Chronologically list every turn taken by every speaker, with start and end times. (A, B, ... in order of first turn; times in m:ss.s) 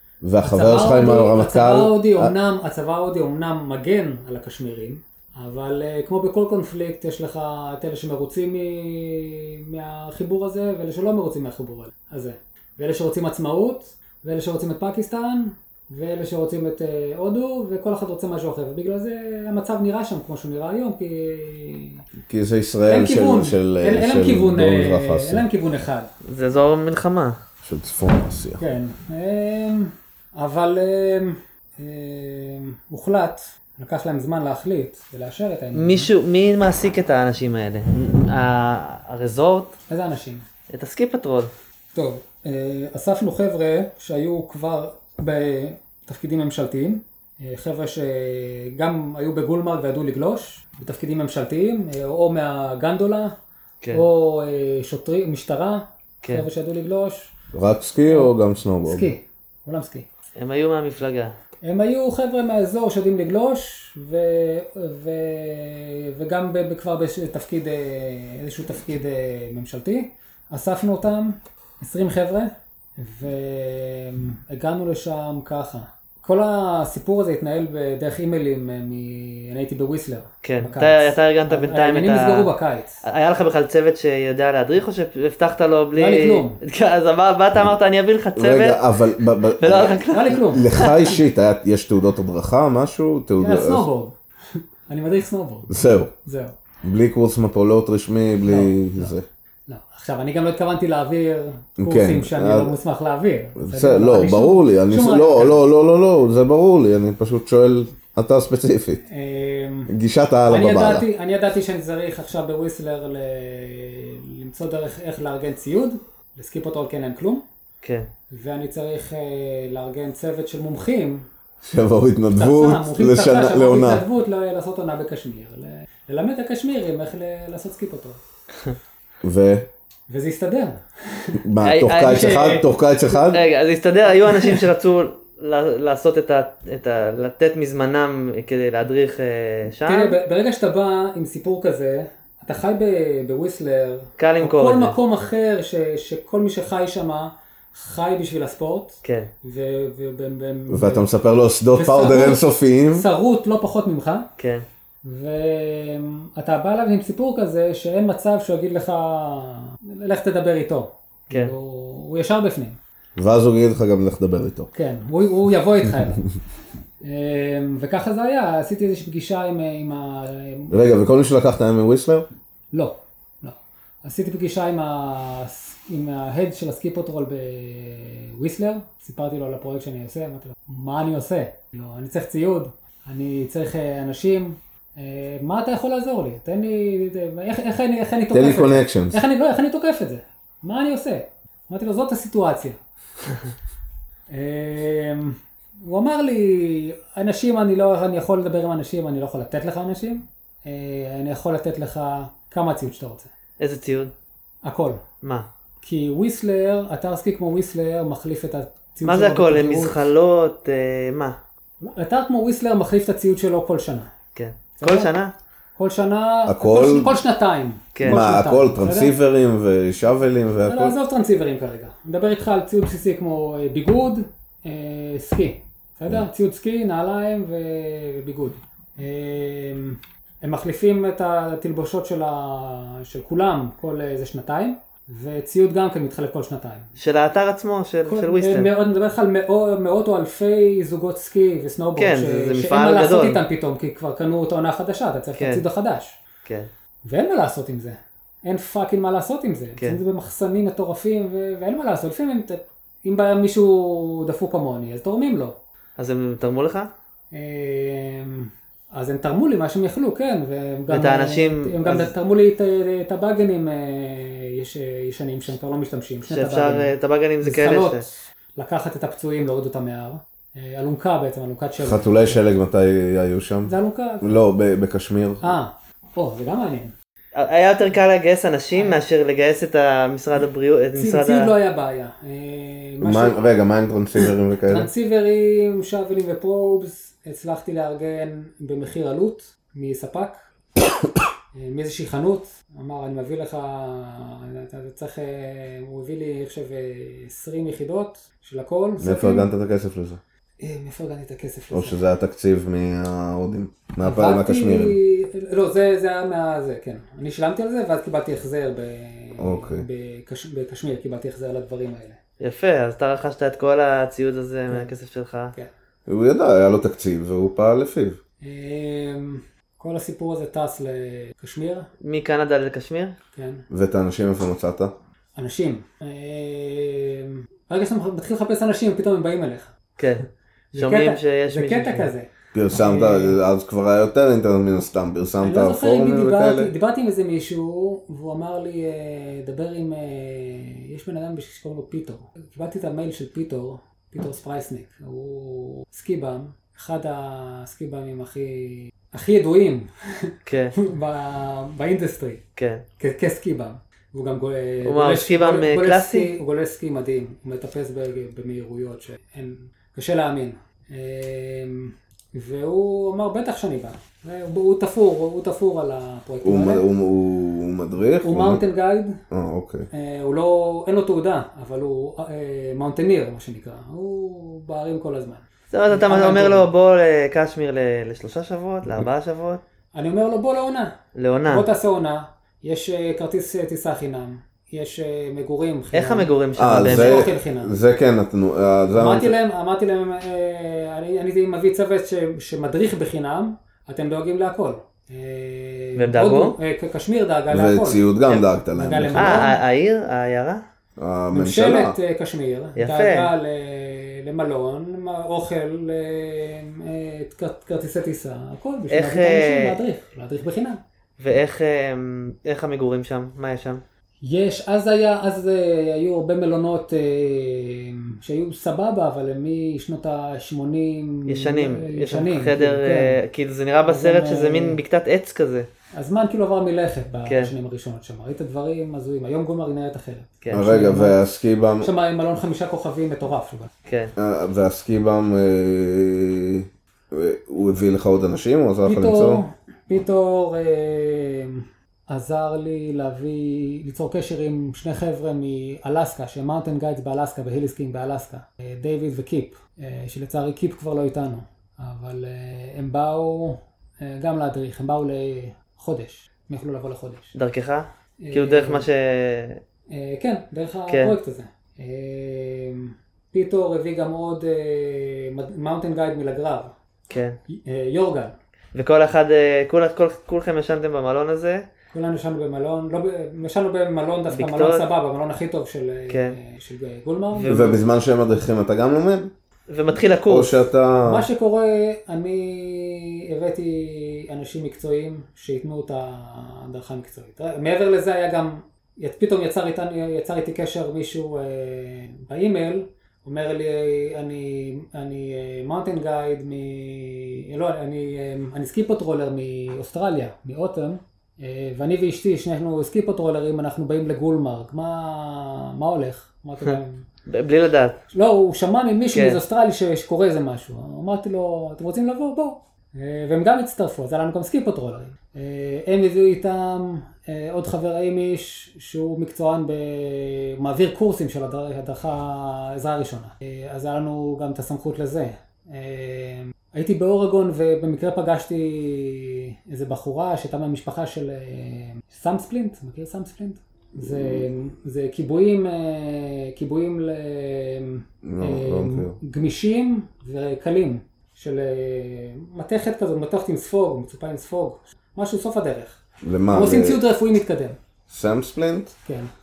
0:00.2-0:02.3 A
0:00.4-0:22.0 B
0:22.2-0:25.4 A
0:22.9-0:26.1 B
0:26.2-0:27.4 C
0:27.6-0:28.6 A
0:28.6-0:36.1 B
0:35.7-0:39.8 C
0:39.9-0:40.4 B
0:40.7-0:41.5 C
0:41.9-0:53.3 B
0:53.9-0:57.3 B
0:57.5-0:59.1 A
0:58.1-1:00.1 B
1:00.4-1:01.3 C
1:01.6-1:23.0 B
1:20.4-1:22.5 C
1:23.0-1:31.2 C
1:26.0-1:26.6 B
1:28.3-1:33.9 A
1:30.1-1:30.8 B
1:33.4-1:36.6 B
1:35.7-1:36.1 A
1:36.8-1:39.2 A
1:38.4-1:39.1 B
1:39.7-1:45.6 B
1:41.8-1:42.7 A
1:43.6-1:49.0 A
1:49.1-1:49.9 B
1:49.9-1:51.0 A
1:50.5-1:57.4 B
1:57.8-1:58.1 C
1:58.3-2:01.3 B
2:01.6-2:04.0 A
2:02.3-2:08.2 B
2:09.2-2:09.7 A
2:10.1-2:11.4 B
2:11.4-2:13.4 A
2:11.6-2:12.5 C
2:11.9-2:12.7 B
2:13.2-2:20.2 C
2:14.3-2:14.6 B
2:19.8-2:31.1 B
2:24.2-2:25.0 C
2:29.0-2:29.3 C
2:30.7-2:33.1 A
2:31.7-2:34.3 B
2:34.4-2:34.6 C
2:35.0-2:42.8 B
2:43.2-2:44.7 A
2:44.7-2:46.2 B
2:47.0-2:50.8 B
2:50.7-2:52.3 A
2:52.7-3:12.8 B
3:08.3-3:09.2 A
3:14.3-3:23.3 B
3:23.6-3:24.1 C
3:24.6-3:25.0 B
3:25.2-3:25.5 C
3:25.8-3:30.0 B
3:29.0-3:31.4 C
3:31.8-3:34.1 B
3:34.3-3:35.3 C
3:34.8-3:35.1 B
3:35.8-3:39.1 B
3:36.4-3:37.1 A
3:37.9-3:38.2 C
3:38.0-3:40.9 A
3:40.6-3:56.9 B
3:57.0-3:58.7 C
3:58.0-4:06.2 B
4:02.0-4:03.4 C
4:05.4-4:05.6 C
4:07.0-4:15.6 B
4:16.0-4:16.9 C
4:17.3-4:32.4 B
4:20.9-4:22.1 C
4:26.3-4:28.0 C
4:31.8-4:35.5 A
4:33.6-4:34.3 B
4:35.4-4:36.9 B
4:37.3-4:41.5 C
4:41.0-4:43.5 B
4:43.0-4:44.9 A
4:44.2-4:50.4 B
4:51.5-4:59.5 B
4:59.0-5:00.2 A
5:00.6-5:02.0 B
5:01.7-5:05.0 A
5:04.0-5:12.2 B
5:09.4-5:09.8 A
5:12.4-5:15.5 C
5:16.1-5:18.2 A
5:18.4-5:21.9 B
5:22.0-5:23.2 C
5:23.3-5:23.6 B
5:23.7-5:24.9 A
5:25.4-5:29.7 B
5:30.0-5:32.1 C
5:30.7-5:33.4 B
5:32.5-5:36.7 A
5:35.4-5:52.4 B
5:50.4-5:50.7 C
5:52.6-5:52.8 C
5:53.0-6:06.8 B
5:54.8-5:56.3 C
6:06.4-6:08.6 A
6:08.2-6:09.2 B
6:09.3-6:09.9 A
6:09.9-6:16.7 B
6:15.7-6:19.6 C
6:19.9-6:27.8 B
6:21.1-6:21.7 C
6:25.9-6:27.3 C
6:26.6-6:29.3 A
6:28.9-6:38.1 B
6:36.0-6:36.6 C
6:37.5-6:39.5 A
6:38.7-6:39.6 B
6:39.1-6:40.6 C
6:41.0-6:42.0 A
6:41.3-6:50.8 B
6:42.8-6:43.3 C
6:48.9-6:49.8 C
6:51.2-6:53.8 C
6:54.2-7:03.2 B
7:01.3-7:05.7 C
7:03.8-7:04.8 B
7:06.0-7:11.2 B
7:07.3-7:07.5 C
7:10.4-7:10.7 C
7:10.5-7:11.9 A
7:11.8-7:13.7 B
7:13.8-7:14.1 C
7:14.2-7:19.4 A
7:18.8-7:37.3 B
7:37.3-7:39.6 C
7:38.2-7:38.8 B
7:39.9-7:46.7 B
7:40.9-7:41.2 C
7:47.1-7:47.4 C
7:47.5-7:48.3 B
7:48.7-7:51.6 C
7:51.9-7:57.7 B
7:54.3-7:54.9 C
7:56.1-7:56.4 C
7:57.3-7:57.8 C
7:57.5-7:59.3 A
7:59.7-8:00.5 C
8:00.3-8:01.3 A
8:01.0-8:27.0 B
8:27.3-8:28.0 C
8:28.1-9:07.8 B
8:29.1-8:29.4 C
8:54.0-8:54.4 A
8:58.2-8:59.2 A
9:06.2-9:07.0 A
9:08.1-9:08.9 A
9:09.0-9:09.3 B